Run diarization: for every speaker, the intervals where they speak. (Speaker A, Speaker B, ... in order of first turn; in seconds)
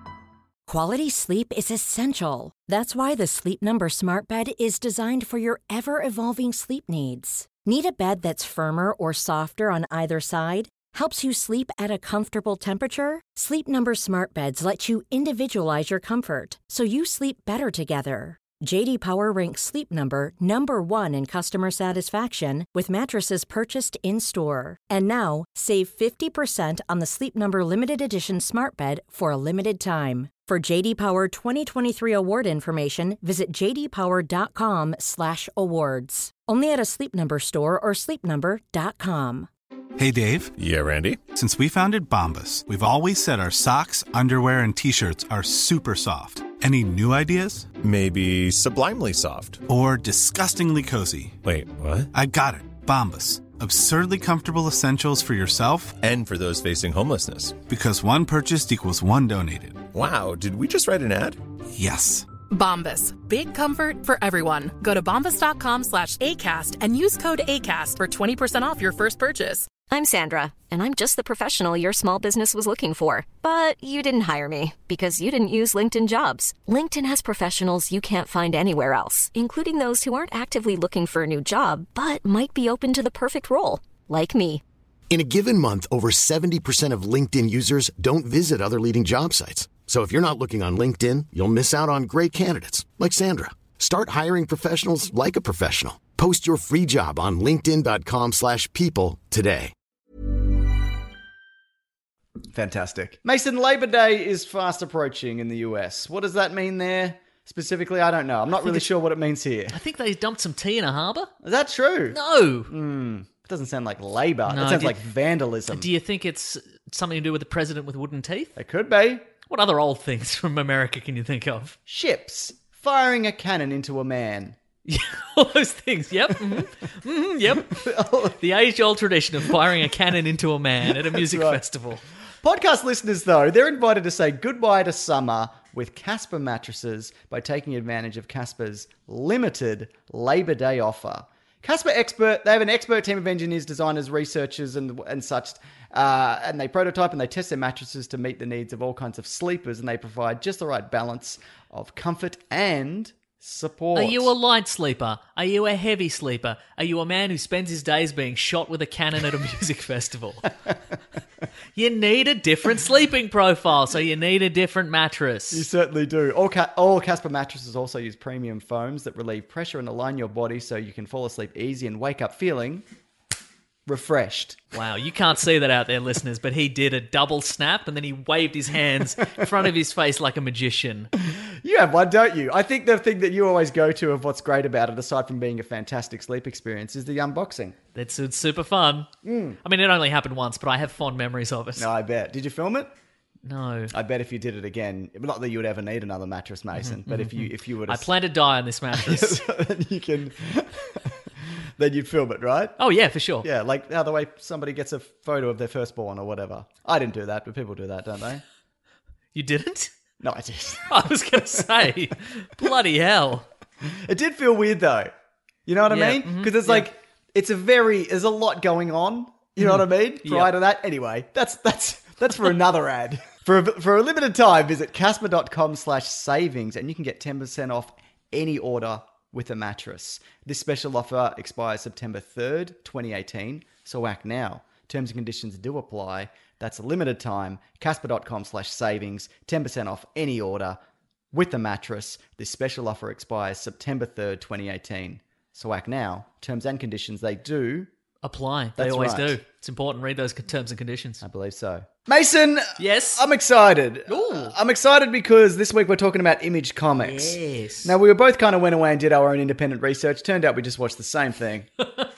Speaker A: 0.7-39.5
Speaker B: 40.0-40.5, 41.4-47.7, 49.7-51.4, 52.1-56.0, 57.7-59.8, 61.7-62.3
Speaker C: 40.6-41.2, 47.8-49.6, 51.4-52.1, 56.0-57.6, 59.9-61.4
Speaker D: 62.5-69.7
Speaker E: 69.9-84.6
Speaker F: 85.1-99.7
Speaker G: 102.5-109.8, 111.4-115.9, 118.6-119.2, 121.9-124.6, 127.7-128.4, 131.1-131.6, 132.4-154.3, 165.5-172.8, 173.9-174.6, 181.3-187.8, 189.2-189.6, 191.8-192.9, 193.9-198.1, 198.9-201.2, 201.8-202.8, 203.4-208.4, 210.2-210.9, 213.8-215.1, 215.7-240.8, 241.3-247.9, 248.8-249.4, 251.2-261.7
Speaker H: 109.7-111.3, 112.1-112.7, 114.5-115.0, 115.7-118.5, 119.5-121.8, 124.8-132.0, 153.9-160.5, 161.8-165.7, 174.7-181.1, 187.9-189.1, 189.6-191.9, 193.4-193.9, 196.7-199.4, 202.8-203.5, 209.3-209.9, 210.9-213.5, 215.9-216.9, 219.6-220.5, 248.2-251.2, 252.8-253.2, 254.1-254.6, 257.0-257.9